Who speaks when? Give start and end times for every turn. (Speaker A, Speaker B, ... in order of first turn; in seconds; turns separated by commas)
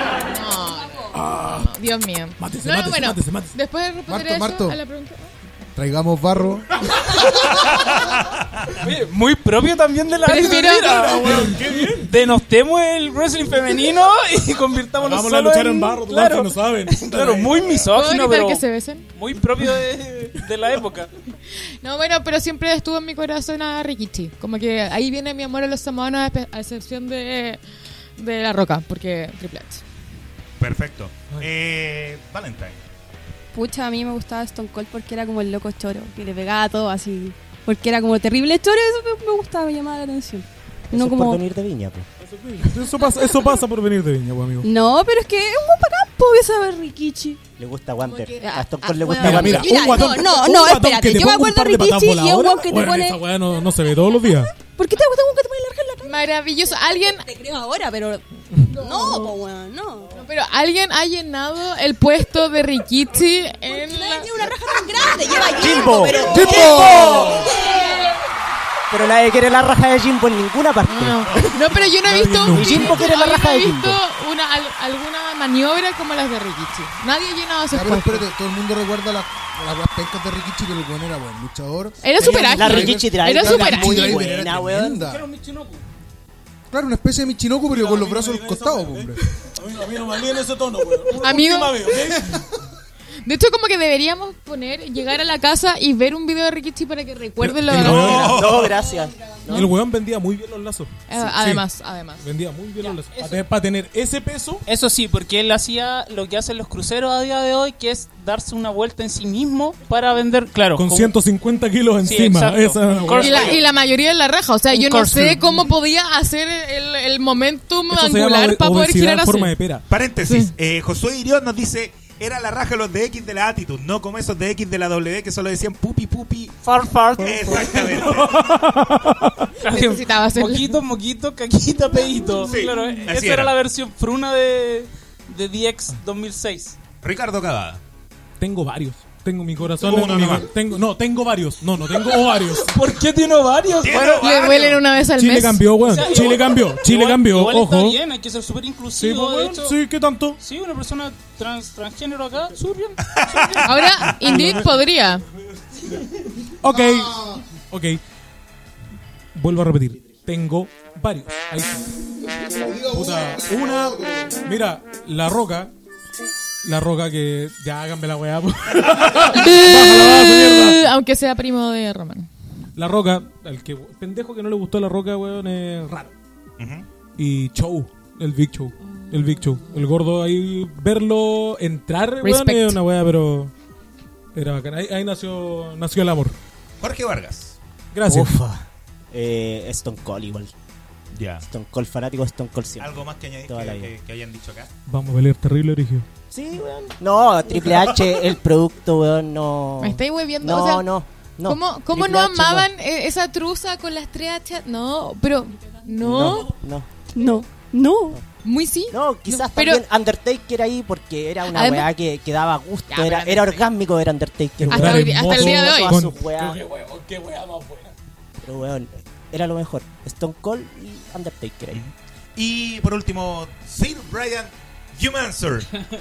Speaker A: 0.3-5.3, Speaker B: 1.1-1.7, Speaker B: 2.4-3.5, Speaker C: 4.1-4.8, Speaker C: 5.7-7.2, Speaker D: 7.7-8.7, Speaker E: 8.8-18.6, Speaker A: 10.2-11.3, Speaker B: 10.4-12.1, Speaker B: 15.0-17.9, Speaker A: 17.9-19.1, Speaker E: 19.1-21.1, Speaker A: 21.8-27.6, Speaker A: 28.2-29.8, Speaker D: 30.6-32.8, Speaker F: 33.5-41.4, Speaker G: 40.9-42.1, Speaker B: 42.2-44.7, Speaker F: 42.8-43.6, Speaker F: 44.6-47.4, Speaker G: 47.6-49.8, Speaker F: 48.1-60.1, Speaker B: 49.2-54.5, Speaker A: 56.0-57.2, Speaker A: 60.1-64.5, Speaker F: 63.7-68.0, Speaker G: 65.6-67.3, Speaker B: 66.3-67.5, Speaker C: 66.6-67.2, Speaker G: 68.9-71.5, Speaker A: 70.8-78.2, Speaker B: 71.7-73.0, Speaker G: 72.5-74.0, Speaker C: 77.7-85.2, Speaker A: 82.0-84.2, Speaker G: 82.2-85.0, Speaker E: 85.0-85.8, Speaker C: 86.7-89.2, Speaker B: 87.7-92.4, Speaker A: 91.2-91.8, Speaker A: 93.2-98.3, Speaker B: 97.4-98.6, Speaker D: 97.8-98.7, Speaker G: 97.8-99.7, Speaker B: 99.5-101.7, Speaker A: 101.1-102.2, Speaker B: 102.2-104.6, Speaker E: 102.8-103.4, Speaker E: 104.7-111.1, Speaker B: 110.8-113.5, Speaker E: 112.0-113.6, Speaker A: 113.1-119.5, Speaker E: 114.7-115.5, Speaker B: 117.9-119.8, Speaker D: 119.9-126.6, Speaker E: 126.6-127.9, Speaker D: 127.2-128.6, Speaker B: 127.5-129.5, Speaker E: 129.6-136.8, Speaker A: 129.6-130.8, Speaker D: 132.4-133.5, Speaker D: 137.0-137.8, Speaker B: 138.4-142.8, Speaker D: 139.8-140.5, Speaker E: 141.9-144.3, Speaker D: 143.7-144.8, Speaker A: 144.1-145.7, Speaker B: 145.1-148.0, Speaker E: 145.8-149.8, Speaker B: 149.0-150.4, Speaker E: 150.4-153.6, Speaker D: 153.1-154.1, Speaker A: 153.6-155.2, Speaker B: 154.2-154.7, Speaker B: 156.6-158.0, Speaker C: 156.6-157.5, Speaker B: 159.3-161.9, Speaker C: 162.4-164.4, Speaker B: 162.9-165.7, Speaker B: 166.6-170.8, Speaker A: 169.3-172.3, Speaker B: 172.8-176.1, Speaker D: 176.6-176.9, Speaker B: 177.2-183.5, Speaker A: 182.2-182.8, Speaker B: 184.3-186.3, Speaker D: 186.8-187.6, Speaker B: 187.9-188.4, Speaker G: 188.1-190.5, Speaker D: 191.1-191.4, Speaker G: 191.4-193.9, Speaker D: 192.8-194.7, Speaker B: 194.9-196.1, Speaker G: 196.3-202.7, Speaker A: 199.8-200.8, Speaker A: 201.4-206.5, Speaker G: 206.0-206.9, Speaker F: 207.1-208.2, Speaker A: 208.4-209.8, Speaker G: 208.9-216.6, Speaker A: 211.5-211.9, Speaker A: 212.9-213.6, Speaker B: 214.6-217.9, Speaker A: 214.7-216.0, Speaker G: 218.4-221.8, Speaker D: 221.7-225.7